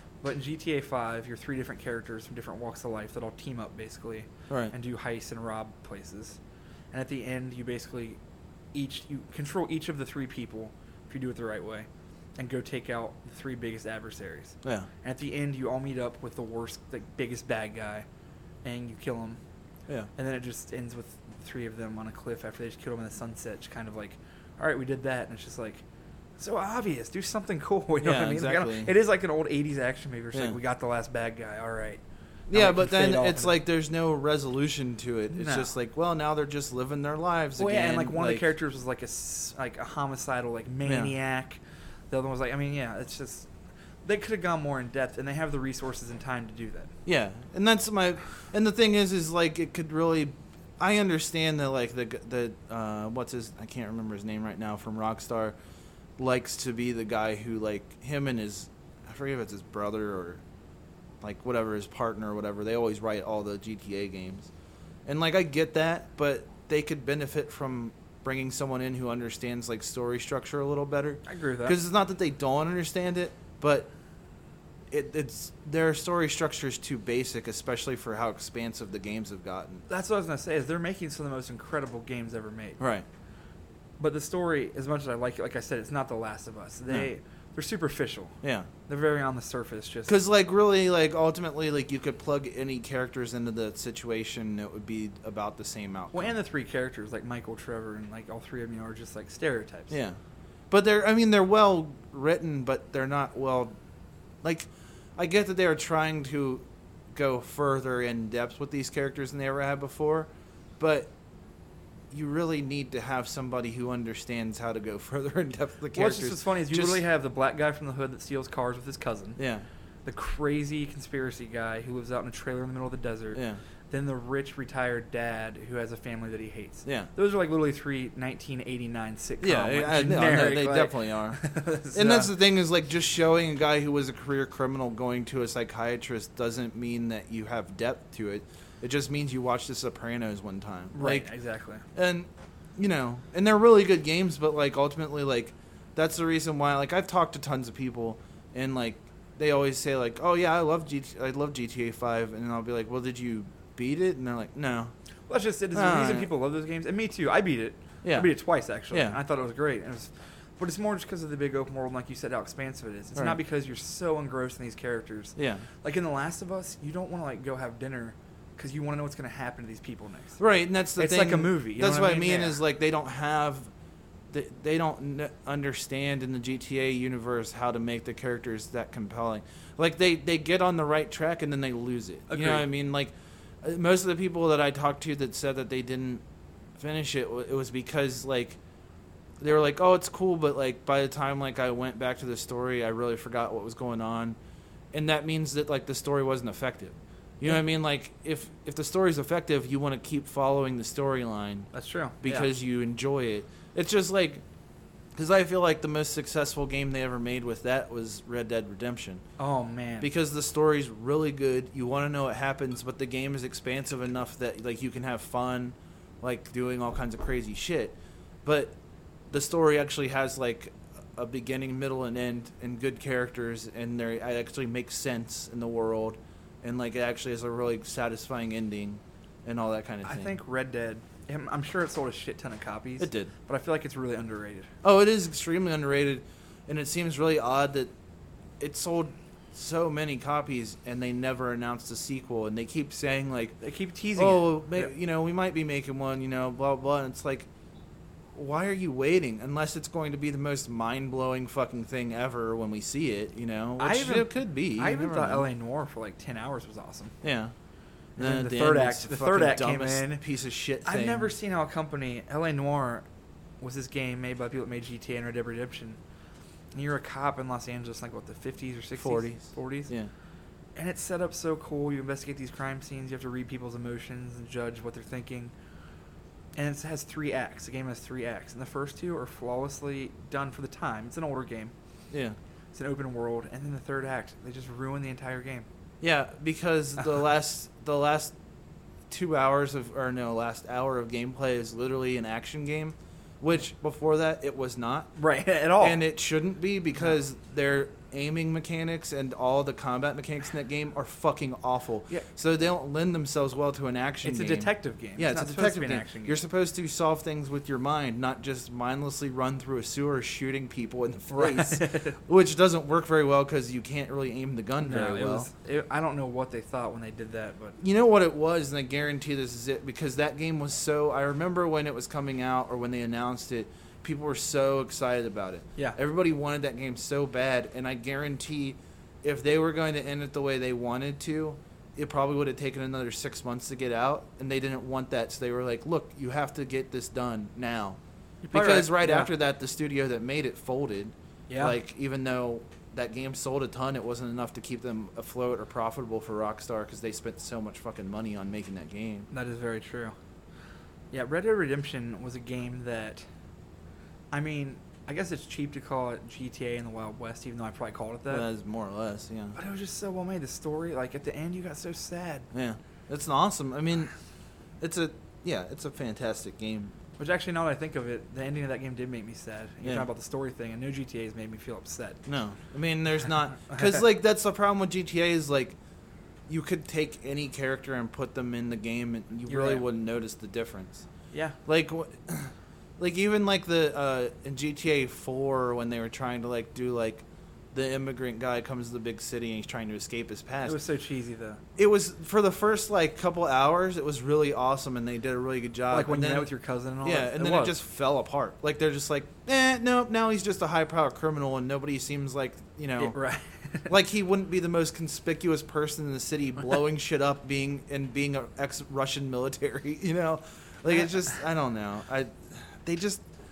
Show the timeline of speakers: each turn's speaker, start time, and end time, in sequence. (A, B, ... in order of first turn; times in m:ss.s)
0:00.2-0:06.4 A
0:04.5-0:04.7 B
0:06.9-0:08.2 A
0:08.7-0:18.1 A
0:14.6-0:14.9 B
0:18.6-0:19.4 A
0:20.1-0:25.8 A
0:26.4-0:33.5 A
0:28.0-0:28.9 B
0:30.3-0:30.6 B
0:32.5-0:38.5 B
0:35.3-0:35.7 A
0:37.6-0:41.6 A
0:40.8-0:41.1 B
0:42.1-0:43.5 A
0:44.0-0:46.9 A
0:47.0-0:55.6 B
0:56.2-1:00.4 B
1:01.2-1:04.5 B
1:05.0-1:13.9 B
1:11.2-1:11.8 A
1:14.9-1:19.8 B
1:19.9-1:22.8 A
1:22.8-1:23.0 B
1:24.0-1:30.2 A
1:28.4-1:28.7 B
1:30.1-1:36.3 B
1:36.1-1:39.9 A
1:39.9-1:40.2 B
1:40.7-1:43.8 B
1:44.4-1:51.1 B
1:52.1-1:57.0 B
1:55.9-1:59.4 A
1:59.4-1:59.6 B
2:00.0-2:12.3 A
2:03.3-2:03.6 B
2:06.8-2:07.1 B
2:09.4-2:21.3 B
2:20.9-2:21.8 A
2:21.9-2:34.9 B
2:35.3-2:50.4 A
2:35.7-2:36.3 B
2:38.0-2:38.3 B
2:38.9-2:39.2 B
2:45.4-2:45.6 B
2:50.4-2:53.7 B
2:51.0-2:52.6 A
2:54.3-3:06.2 B
3:02.3-3:02.7 A
3:06.8-3:08.6 B
3:09.4-3:14.4 B
3:14.9-3:21.7 B
3:21.7-3:22.5 A
3:22.2-3:24.4 B
3:25.1-3:29.2 B
3:29.4-3:30.1 A
3:30.0-3:38.7 B
3:39.3-3:50.4 B
3:50.0-3:54.7 A
3:53.0-3:53.3 B
3:54.8-3:57.9 B
3:58.6-4:03.6 B
4:03.6-4:04.9 A
4:04.2-4:07.5 B
4:08.3-4:15.4 B
4:13.8-4:17.1 A
4:17.2-4:17.5 B
4:18.2-4:20.2 A
4:18.2-4:21.3 B
4:20.8-4:23.0 A
4:23.6-4:26.0 A
4:26.7-4:29.9 A
4:29.0-4:30.1 B
4:30.8-4:35.5 A
4:36.5-4:41.7 A
4:42.1-4:42.4 B
4:42.7-4:45.6 A
4:46.0-4:48.3 B
4:49.1-4:55.1 B
4:55.2-4:56.0 A
4:55.8-5:15.5 B
5:04.2-5:06.4 A
5:11.3-5:12.2 A
5:14.8-5:17.8 A
5:17.8-5:38.0 B
5:38.4-5:39.3 A
5:38.5-5:49.3 B
5:41.5-5:41.8 A
5:49.3-5:50.2 A
5:51.1-5:53.2 A
5:54.3-5:58.4 A
5:58.3-5:59.6 B
5:59.6-6:02.5 A
6:02.5-6:04.1 B
6:04.8-6:06.9 B
6:07.2-6:12.2 A
6:12.2-6:15.8 B
6:13.7-6:14.0 A
6:16.5-6:21.0 B
6:19.5-6:19.8 A
6:21.3-6:21.6 A
6:21.6-6:30.8 B
6:30.6-6:31.6 A
6:31.8-6:36.5 B
6:35.9-6:37.7 A
6:37.0-6:43.2 B
6:43.0-6:43.9 A
6:43.9-6:53.2 B